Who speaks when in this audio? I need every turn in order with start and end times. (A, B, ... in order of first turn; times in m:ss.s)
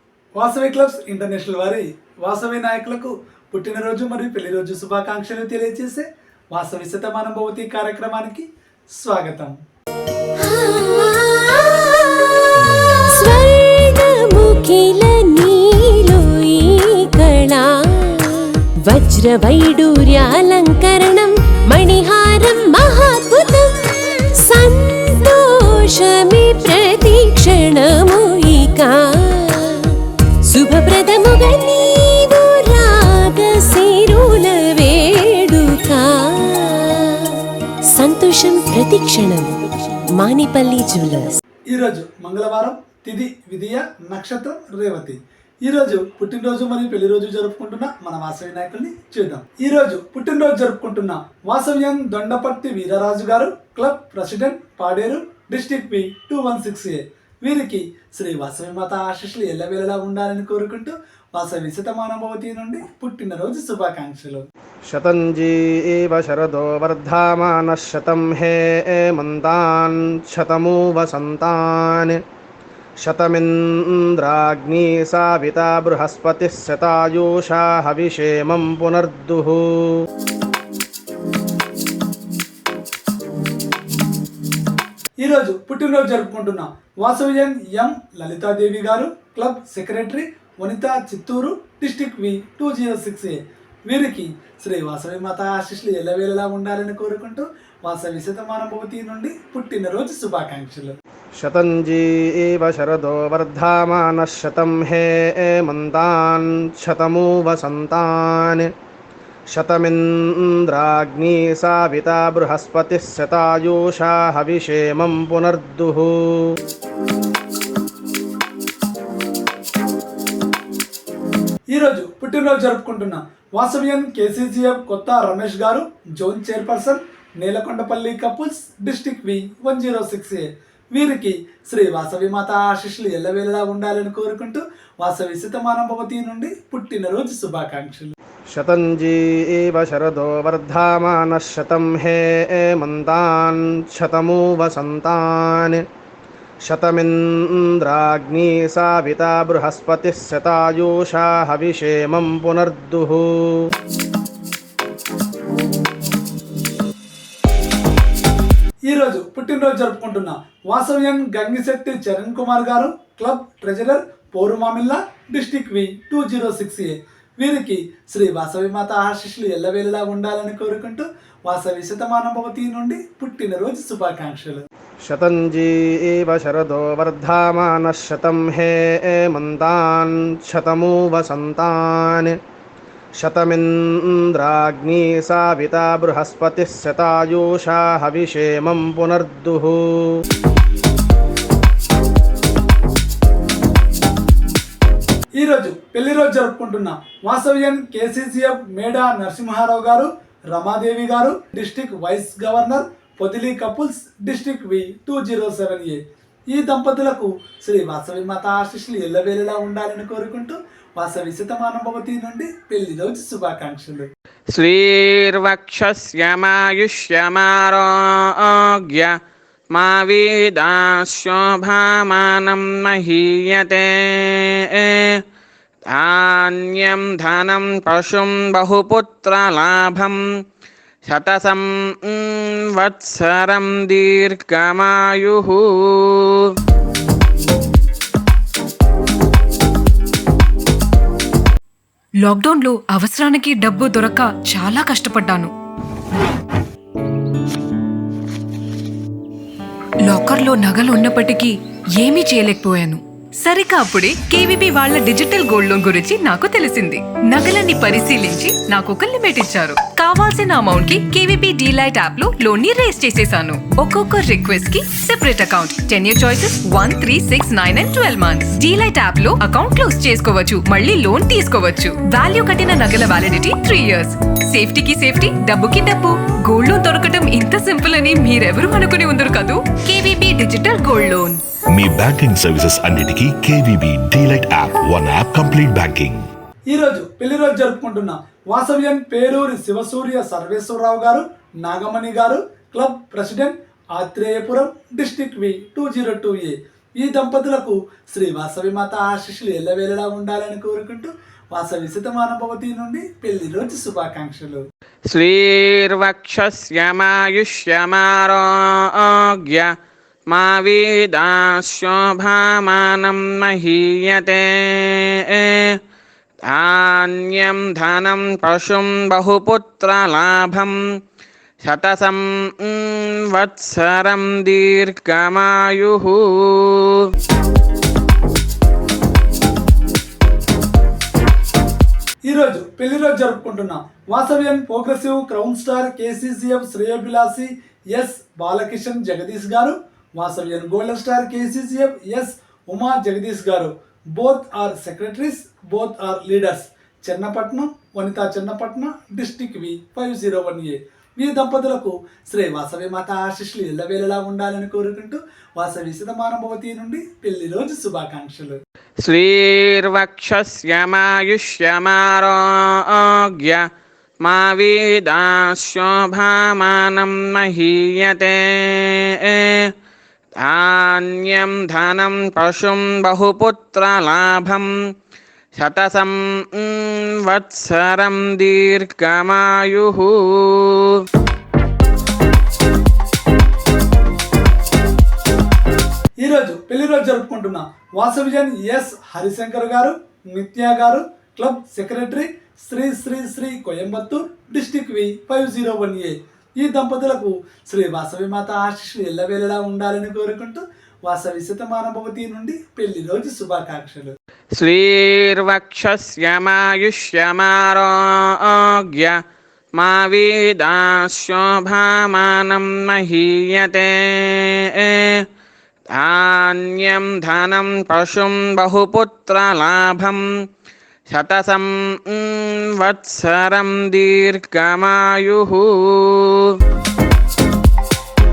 0:00.4-0:09.6 A
0:10.4-0:41.4 B
0:41.7-1:04.4 A
1:04.9-1:12.2 C
1:13.0-1:19.9 C
1:25.2-1:40.9 A
1:41.4-1:48.7 C
1:49.5-1:56.4 C
2:01.7-2:18.1 A
2:18.5-2:25.8 C
2:26.6-2:33.5 C
2:38.9-2:54.6 A
2:55.0-3:02.4 C
3:03.2-3:10.1 C
3:15.3-3:26.0 A
3:26.5-3:34.1 A
3:34.5-3:39.1 D
3:39.7-3:45.2 D
3:45.9-3:50.2 D
3:51.0-3:56.5 D
4:02.2-4:05.5 E
4:10.0-4:41.4 E
4:41.7-4:46.2 F
4:46.7-5:04.6 A
5:05.1-5:09.7 D
5:10.3-5:15.8 D
5:16.5-5:20.8 D
5:21.6-5:27.1 D
5:32.2-5:58.6 A
5:59.0-6:03.6 D
6:04.2-6:09.7 D
6:10.4-6:14.7 D
6:15.6-6:21.0 D
6:26.2-6:44.1 A
6:44.6-6:49.2 D
6:49.8-6:55.2 D
6:55.9-7:00.2 D
7:01.1-7:06.6 D